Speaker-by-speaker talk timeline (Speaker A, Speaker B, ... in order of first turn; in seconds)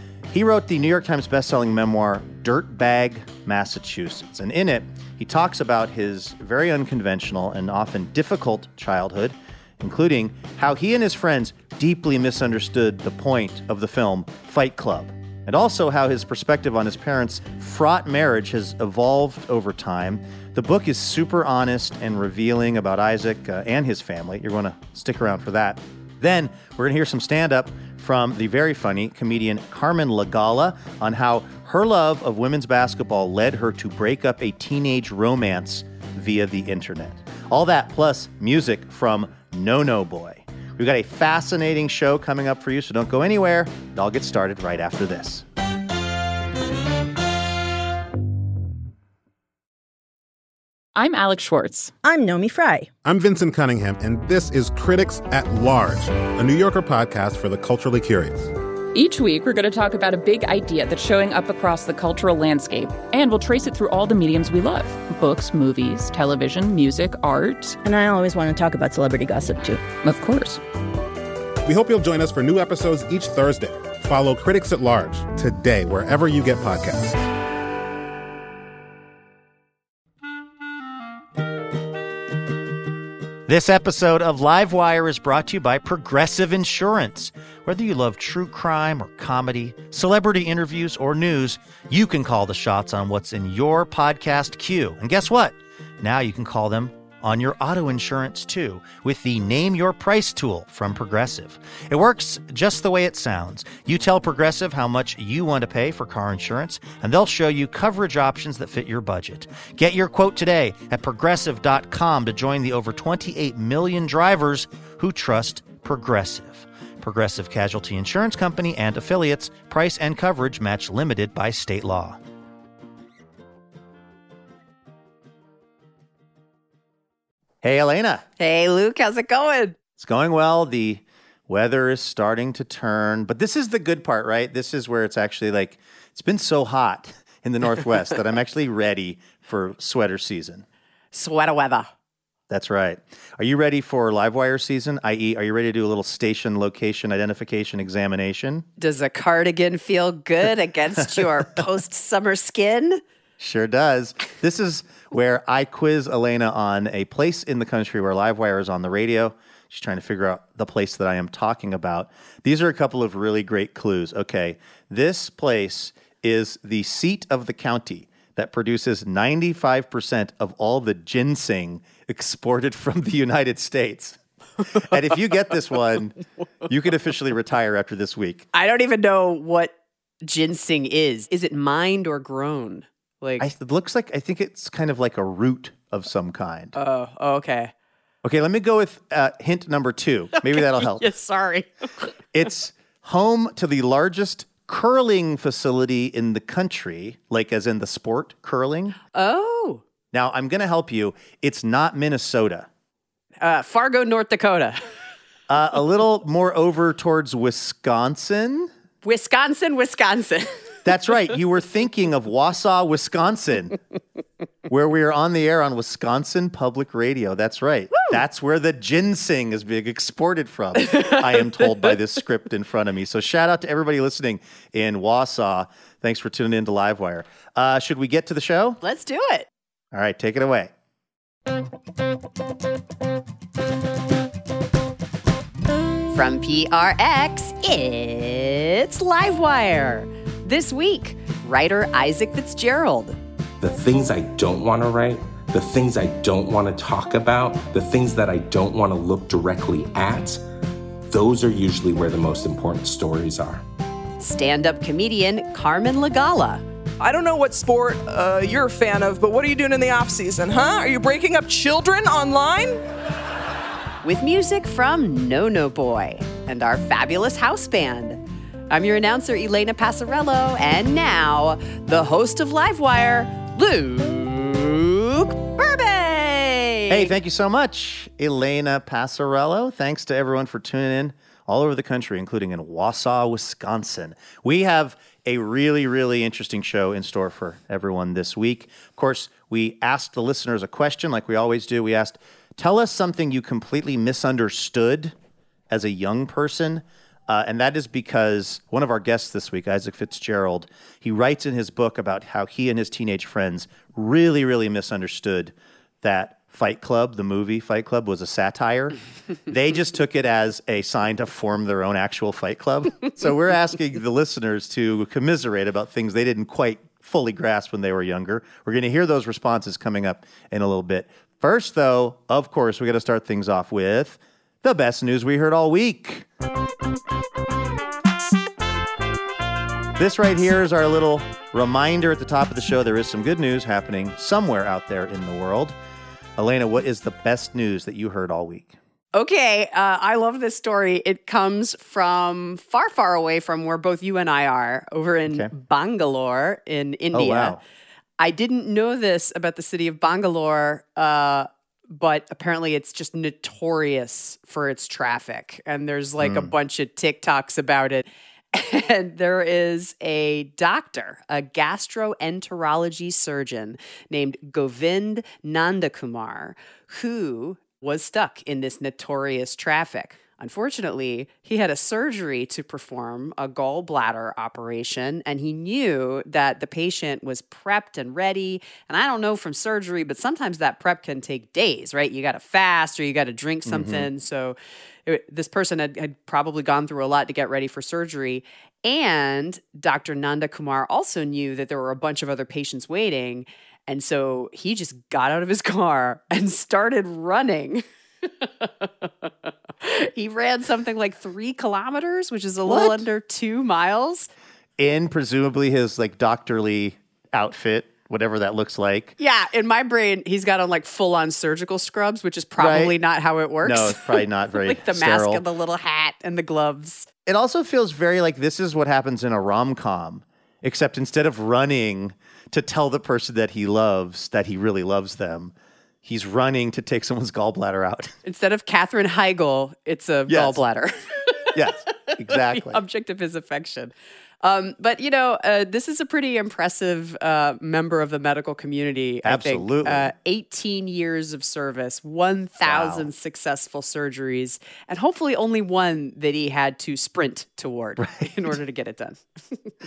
Speaker A: 0.3-45.4, 83.5-122.2, 127.6-128.2, 130.0-140.7, 142.5-148.7, 153.4-178.5, 183.4-186.8, 188.2-191.1, 192.3-199.0, 200.1-202.7, 205.5-208.7, 210.8-213.8, 214.7-228.8, 229.9-230.7, 276.9-295.1, 295.7-326.3, 330.0-335.8, 336.4-338.8, 347.1-347.6, 356.2-356.5, 383.7-384.1, 402.7-403.0, 404.8-409.2, 412.6-412.9, 413.6-415.4, 417.3-425.5, 426.0-428.1, 430.3-430.6, 431.5-432.8, 439.2-440.1, 442.6-443.1, 448.0-448.3
Speaker B: 51.0-51.9, 58.9-67.8, 70.0-70.6
Speaker C: 52.0-52.9, 67.8-69.9
Speaker D: 53.0-58.5, 71.7-77.2
Speaker E: 128.4-129.8, 141.1-141.9, 148.8-153.0, 178.5-183.5, 186.8-187.7, 190.4-192.1, 199.1-199.8, 203.4-204.8, 209.0-210.6, 228.8-229.5, 236.1-243.2, 254.2-256.6, 264.0-277.1, 339.1-347.6, 348.2-404.3, 409.2-417.1, 428.2-449.6
Speaker F: 243.6-250.4, 251.1-253.6
Speaker G: 257.0-262.8